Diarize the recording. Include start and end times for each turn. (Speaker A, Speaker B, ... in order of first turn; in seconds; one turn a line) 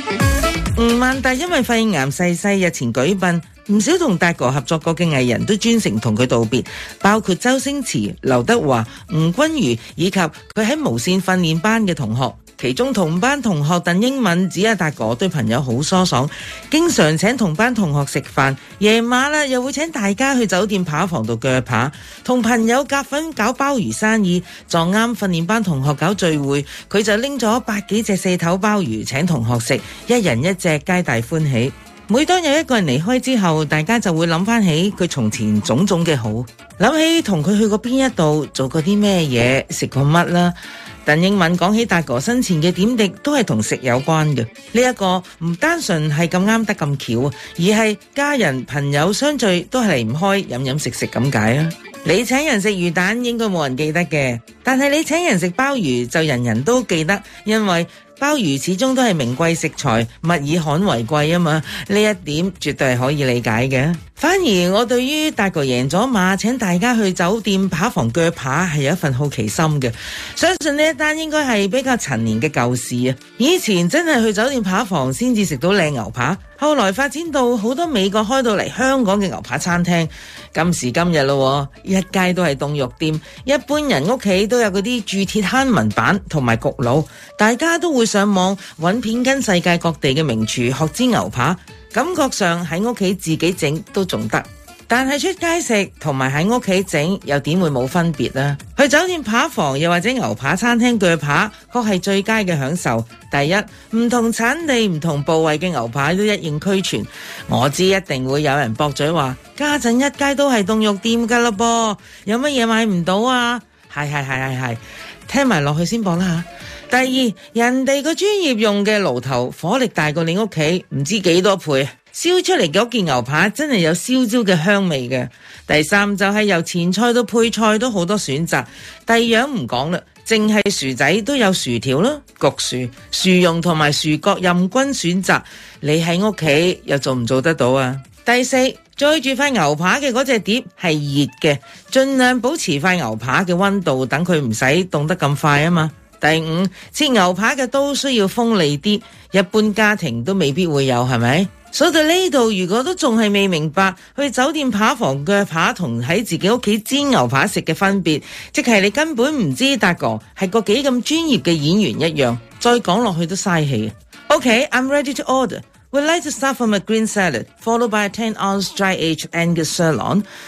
Speaker A: 0.8-40.5
Speaker A: 41.0-170.2